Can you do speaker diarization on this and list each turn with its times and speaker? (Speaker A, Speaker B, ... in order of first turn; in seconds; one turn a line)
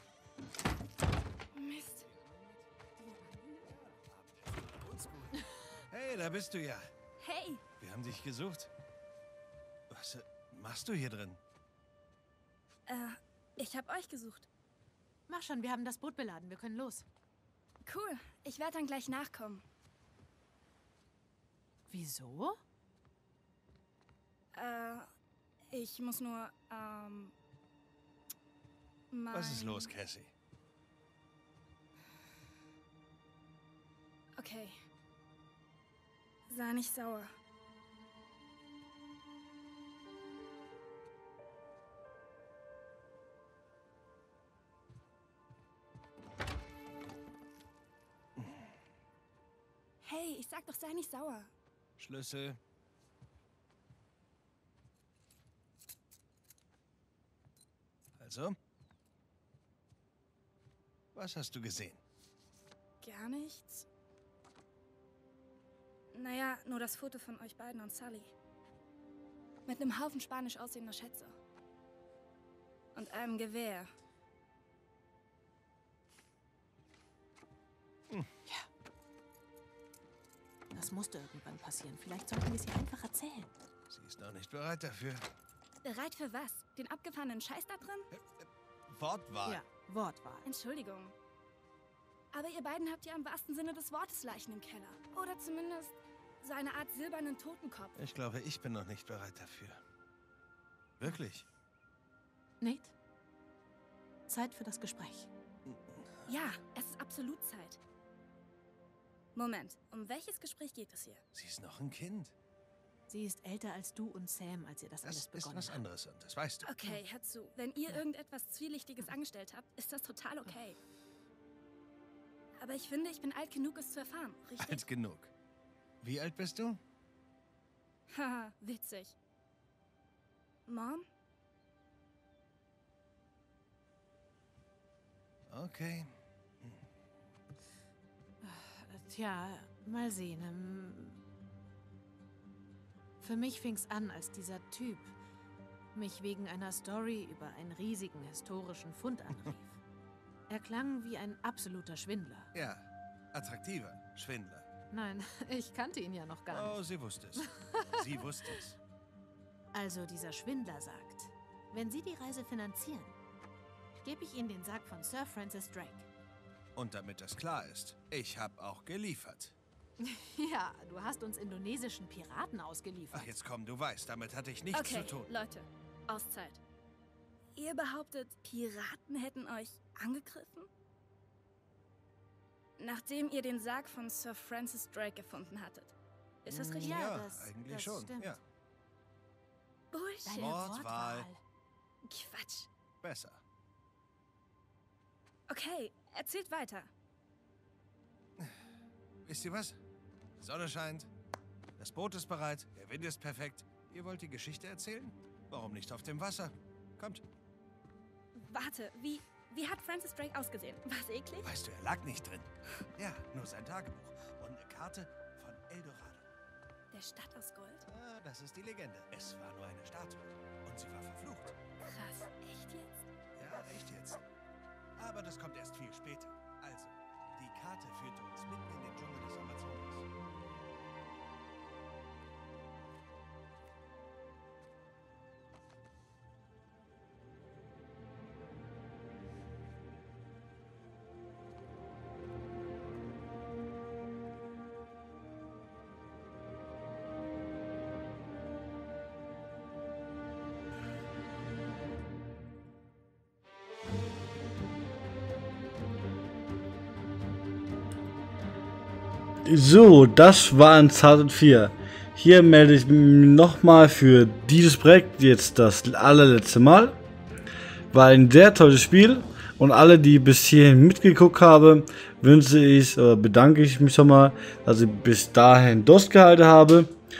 Speaker A: 1.5-2.0
Speaker B: 2.0-6.8
Speaker A: 7.2-7.6
Speaker B: 7.8-8.7
Speaker B: 9.9-11.4
Speaker A: 12.9-14.5
Speaker C: 15.3-17.1
Speaker A: 17.8-19.6
Speaker C: 21.9-22.6
Speaker A: 24.5-25.1
Speaker A: 25.7-27.3
Speaker A: 29.1-29.9
Speaker B: 29.3-30.3
Speaker A: 34.4-34.8
Speaker A: 36.5-37.3
Speaker A: 50.0-51.5
Speaker B: 52.0-52.6
Speaker B: 58.2-58.5
Speaker B: 61.1-62.0
Speaker A: 63.0-63.9
Speaker A: 66.1-68.3
Speaker A: 69.7-71.3
Speaker A: 72.9-73.9
Speaker C: 80.7-83.5
Speaker B: 83.9-85.3
Speaker A: 85.8-88.1
Speaker B: 88.1-89.6
Speaker C: 89.4-90.5
Speaker A: 90.4-91.1
Speaker A: 92.3-98.0
Speaker B: 98.0-99.8
Speaker B: 101.0-101.5
Speaker C: 102.6-102.9
Speaker C: 104.3-105.3
Speaker B: 105.7-106.3
Speaker A: 106.3-107.8
Speaker A: 109.3-111.2
Speaker B: 111.3-112.3
Speaker C: 113.1-115.8
Speaker B: 115.0-116.7
Speaker A: 116.6-120.8
Speaker A: 122.6-124.8
Speaker B: 124.6-125.3
Speaker B: 126.0-126.8
Speaker A: 128.1-129.1
Speaker A: 130.7-131.1
Speaker B: 135.5-136.8
Speaker C: 138.4-141.2
Speaker C: 143.2-145.1
Speaker C: 145.9-149.8
Speaker C: 150.5-152.5
Speaker B: 152.5-154.7
Speaker C: 154.9-156.8
Speaker B: 156.5-158.8
Speaker C: 157.4-158.0
Speaker C: 159.7-163.1
Speaker C: 164.0-166.1
Speaker B: 166.8-169.5
Speaker C: 170.0-173.3
Speaker B: 173.1-175.3
Speaker A: 174.7-176.6
Speaker A: 177.5-180.7
Speaker A: 182.8-187.1
Speaker B: 186.5-188.4
Speaker C: 186.8-188.4
Speaker A: 189.9-190.7
Speaker C: 190.2-191.4
Speaker B: 190.4-191.3
Speaker A: 192.0-192.7
Speaker B: 193.0-193.4
Speaker A: 195.5-196.9
Speaker B: 199.2-199.8
Speaker B: 200.4-201.1
Speaker B: 201.8-207.2
Speaker A: 208.3-211.5
Speaker B: 211.4-216.3
Speaker A: 216.9-217.8
Speaker B: 217.8-221.6
Speaker A: 221.9-223.1
Speaker B: 223.3-224.2
Speaker B: 225.0-230.1
Speaker D: 259.4-267.0
Speaker D: 267.9-276.9